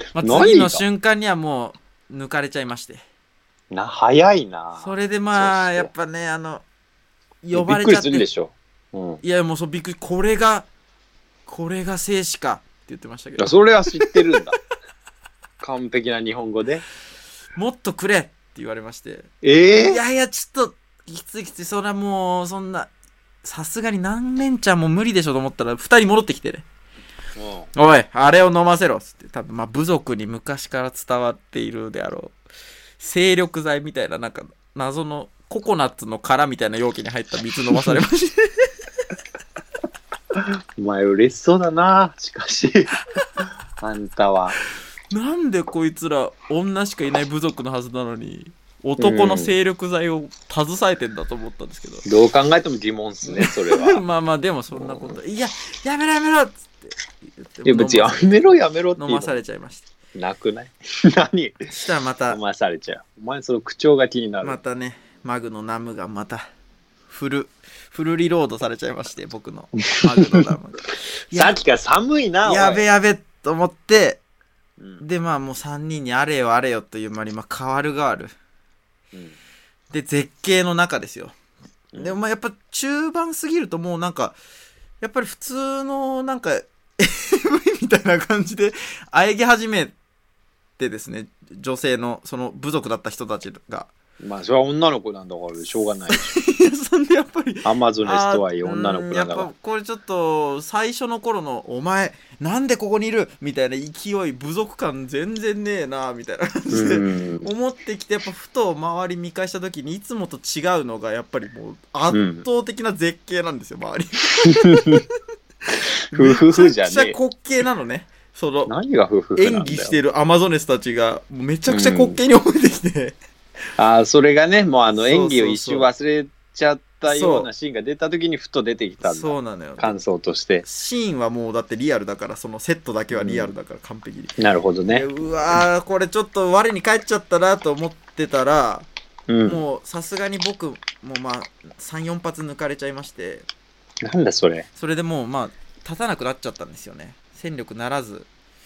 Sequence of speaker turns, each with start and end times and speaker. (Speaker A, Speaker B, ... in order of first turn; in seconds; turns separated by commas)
Speaker A: 0.1-3.0, Speaker B: 0.2-0.8, Speaker B: 3.7-5.9, Speaker A: 4.8-6.6, Speaker A: 7.4-8.3, Speaker B: 7.5-9.2, Speaker A: 9.2-10.7, Speaker A: 11.5-14.4, Speaker B: 13.4-14.6, Speaker B: 15.6-16.9, Speaker A: 17.6-22.9, Speaker B: 19.4-20.0, Speaker A: 23.4-26.6, Speaker B: 27.4-27.7, Speaker A: 27.8-32.4, Speaker A: 33.0-38.7, Speaker B: 40.4-43.0, Speaker B: 43.8-44.6, Speaker A: 45.1-52.0, Speaker B: 49.0-49.5, Speaker B: 52.0-54.0, Speaker A: 53.3-58.4, Speaker B: 54.8-55.2, Speaker B: 57.6-59.4, Speaker A: 59.0-59.9, Speaker B: 60.2-61.7, Speaker A: 61.7-62.4, Speaker B: 62.3-64.6, Speaker A: 64.4-66.4, Speaker A: 67.1-71.6, Speaker B: 69.8-70.5, Speaker B: 71.3-72.8, Speaker A: 72.4-74.2, Speaker A: 75.0-78.3, Speaker B: 79.1-79.4, Speaker A: 79.9-81.3, Speaker B: 81.9-82.2, Speaker A: 82.0-84.4, Speaker A: 85.0-90.0, Speaker A: 90.8-93.9, Speaker B: 94.2-96.4, Speaker A: 96.1-115.0, Speaker B: 97.6-99.5, Speaker B: 106.7-107.5, Speaker B: 112.1-112.5, Speaker B: 114.3-115.0, Speaker B: 115.8-117.2, Speaker A: 116.1-118.7, Speaker B: 118.7-120.0, Speaker A: 119.4-123.2, Speaker B: 121.7-122.2, Speaker B: 123.8-130.7, Speaker A: 125.0-125.9, Speaker A: 127.0-127.5, Speaker A: 129.0-130.0, Speaker A: 130.6-134.3, Speaker B: 133.1-133.5, Speaker B: 134.4-135.1, Speaker A: 134.9-138.9, Speaker B: 139.3-139.6, Speaker A: 139.4-143.5, Speaker B: 144.0-144.7, Speaker A: 144.8-148.3